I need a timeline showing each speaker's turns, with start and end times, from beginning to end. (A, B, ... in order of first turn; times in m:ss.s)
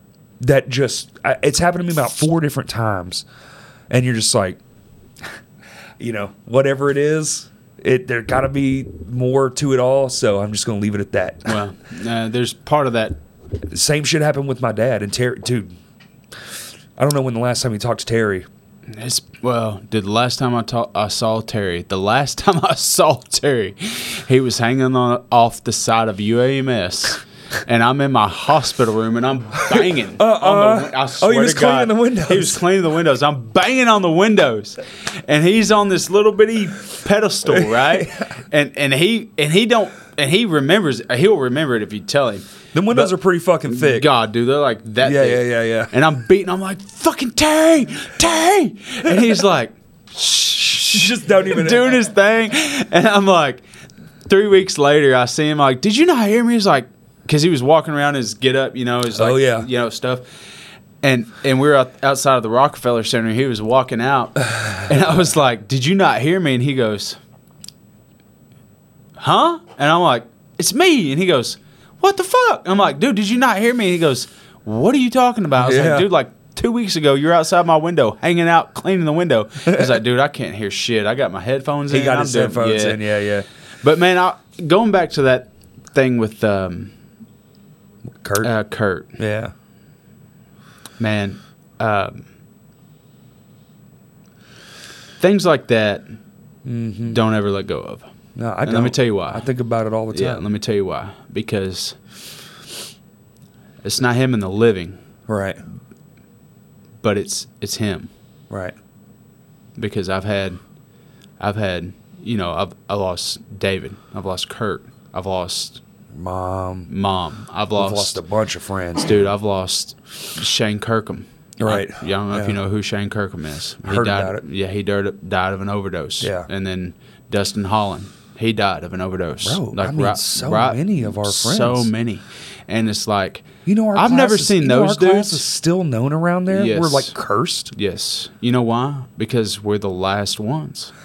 0:00.4-0:03.2 A
0:03.9-0:04.6 A
0:06.0-0:11.6 A
0:11.5-0:13.2 B
0:13.7-0:15.7 A
0:17.0-0:18.5 A
0:18.9-0:43.1 B
0:29.7-0:32.6 A
0:37.5-0:38.3 A
0:42.7-0:44.1 A
0:43.7-0:53.6 B
0:45.0-0:45.9 A
0:50.6-0:52.1 A
0:54.3-1:00.3 B
0:59.1-0:59.7 A
1:01.0-1:07.2 B
1:04.5-1:05.0 A
1:09.2-1:23.0 B
1:15.6-1:16.1 A
1:19.7-1:20.0 A
1:21.9-1:23.5 A
1:23.8-1:26.9 B
1:28.2-1:28.5 A
1:28.4-1:29.2 B
1:29.2-1:29.5 A
1:31.0-1:32.3 B
1:35.2-1:36.1 B
1:36.6-1:37.2 A
1:37.1-1:38.1 B
1:38.4-1:40.4 A
1:38.6-1:39.5 B
1:40.1-1:42.0 B
1:43.8-1:45.0 B
1:45.3-1:45.6 A
1:47.0-1:48.1 B
1:48.5-1:48.8 A
1:49.8-1:50.6 B
1:51.4-1:55.8 B
1:56.1-1:56.9 A
1:56.9-1:58.2 B
1:57.8-1:59.2 A
1:59.0-2:15.4 B
2:01.6-2:02.6 A
2:03.8-2:04.4 A
2:06.2-2:06.5 A
2:09.4-2:11.9 A
2:13.7-2:17.7 A
2:16.5-2:17.1 B
2:17.7-2:20.9 B